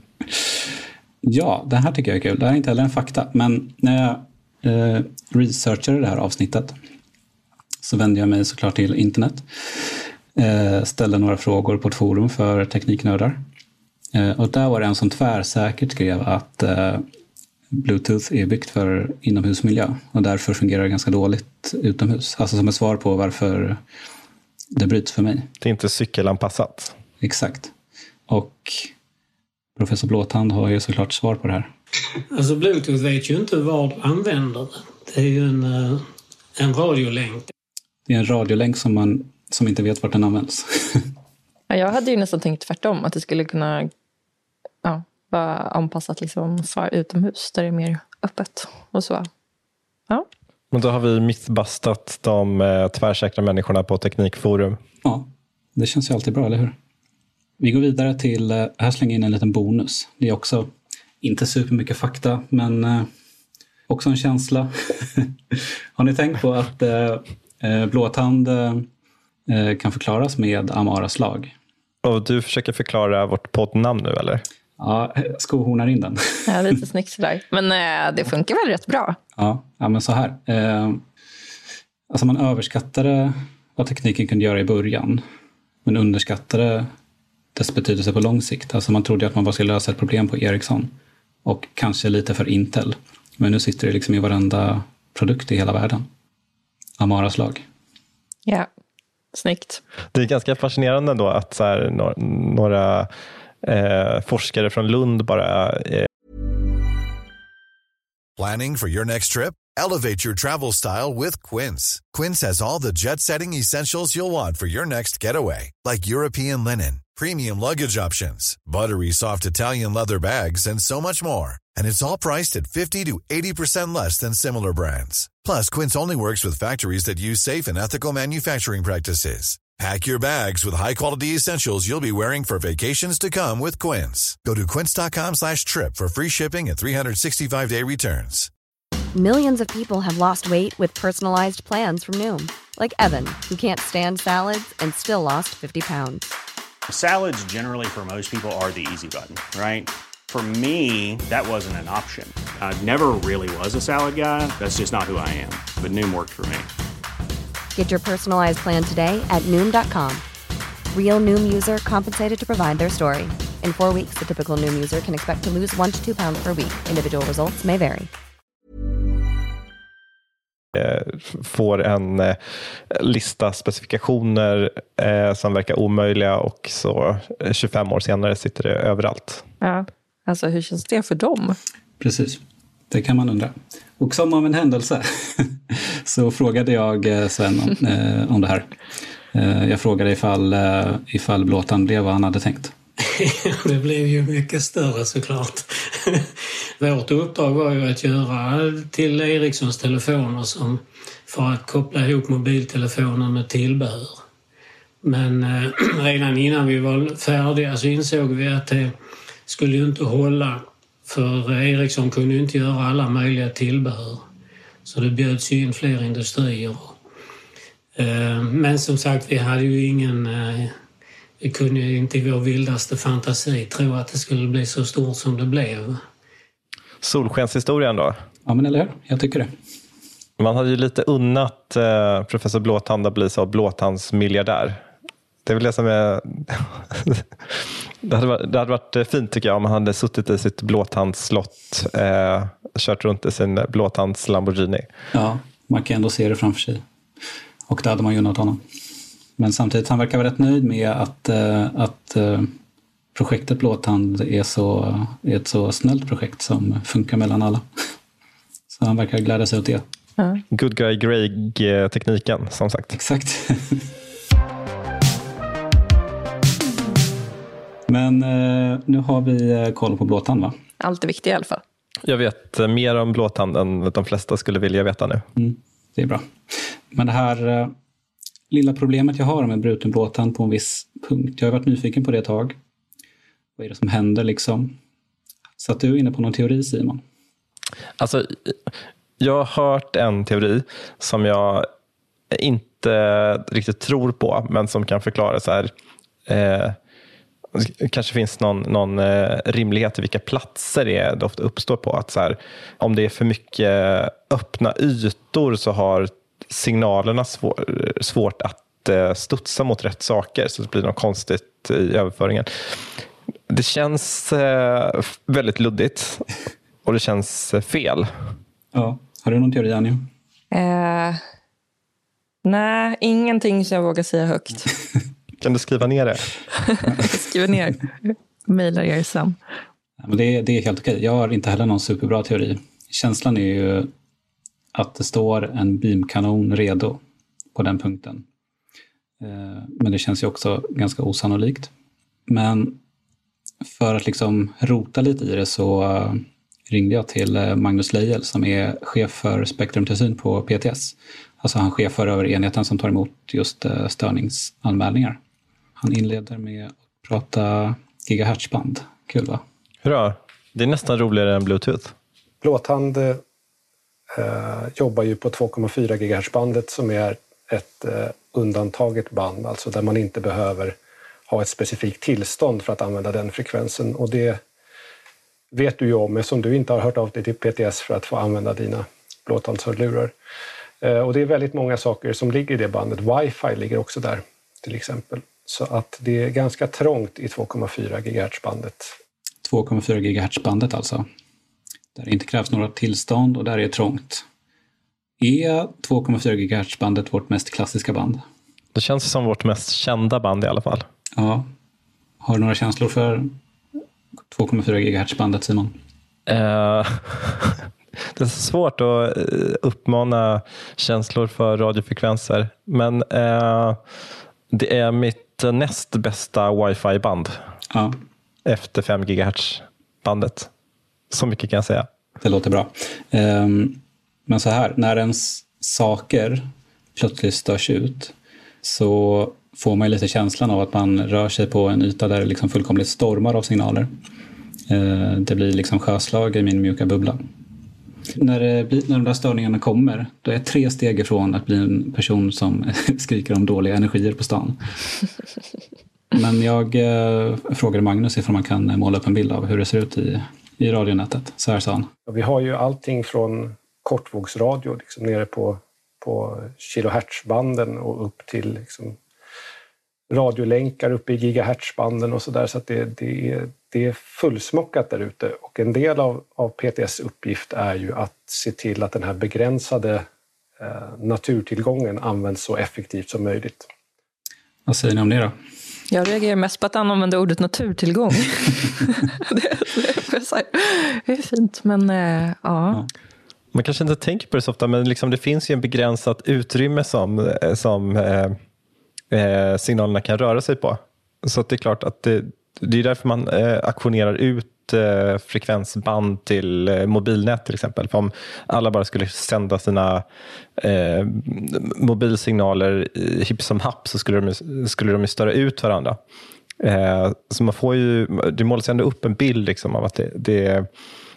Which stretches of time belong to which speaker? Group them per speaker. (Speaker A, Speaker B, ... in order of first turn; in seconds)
Speaker A: 1.2-6.8, 7.8-13.4, 14.1-17.1, 17.7-23.8, 24.7-25.5, 27.2-27.7, 28.3-28.9, 29.8-31.7, 38.1-41.1, 55.0-56.8, 57.6-60.7, 61.2-63.1, 63.9-68.9, 69.5-71.5, 74.8-76.6, 79.4-81.0, 82.1-85.2, 85.8-86.9, 87.5-90.9, 91.5-96.1, 97.0-97.7, 182.0-188.7, 189.3-192.7, 228.5-229.5, 245.1-246.8, 247.7-248.6, 249.4-252.5, 253.2-257.6, 258.7-259.9, 262.9-263.9, 267.9-270.6, 275.4-277.7, 278.5-282.6, 283.6-284.8, 285.6-287.0, 318.7-320.1, 330.0-333.9, 334.7-337.0, 337.6-338.2, 339.2-341.7, 342.3-342.8, 343.6-355.2, 355.8-359.4, 389.4-391.1, 391.9-394.2, 395.2-398.2, 401.2-401.5, 402.2-403.3, 404.3-405.8, 422.2-433.9, 434.7-437.2, 438.1-444.6, 446.1-451.9, 474.7-475.4
Speaker B: 25.6-26.9, 50.7-54.8, 72.0-74.4, 100.1-103.1, 103.6-106.1, 170.7-179.4, 227.0-228.2, 230.4-234.8, 235.4-244.9, 260.5-262.9, 272.0-275.2, 288.0-288.6, 289.2-291.7, 292.3-295.7, 296.3-296.8, 297.5-312.5, 313.5-316.3, 316.9-318.1, 325.4-326.3, 359.8-361.9, 398.8-400.9, 406.3-413.8, 414.5-417.4, 418.4-420.5, 421.1-421.9, 483.5-488.4, 489.1-500.1, 500.6-506.0, 506.6-510.7
Speaker C: 32.3-36.1, 36.6-37.5, 193.1-204.2, 205.0-208.9, 209.5-214.2, 214.8-216.9, 218.0-220.8, 221.4-226.0
Speaker D: 41.7-43.9, 44.8-49.3, 76.5-79.2, 99.3-99.8, 179.6-181.6, 270.8-271.6, 320.5-321.2, 322.4-324.7, 326.7-329.4, 475.9-482.8
Speaker E: 108.4-138.5
Speaker F: 139.1-146.3, 157.8-160.2, 160.9-168.1
Speaker G: 146.9-156.7
Speaker H: 362.4-363.2, 364.1-370.8, 371.3-374.4, 375.5-380.1, 380.8-388.9, 452.1-459.0, 460.1-470.1, 470.6-473.7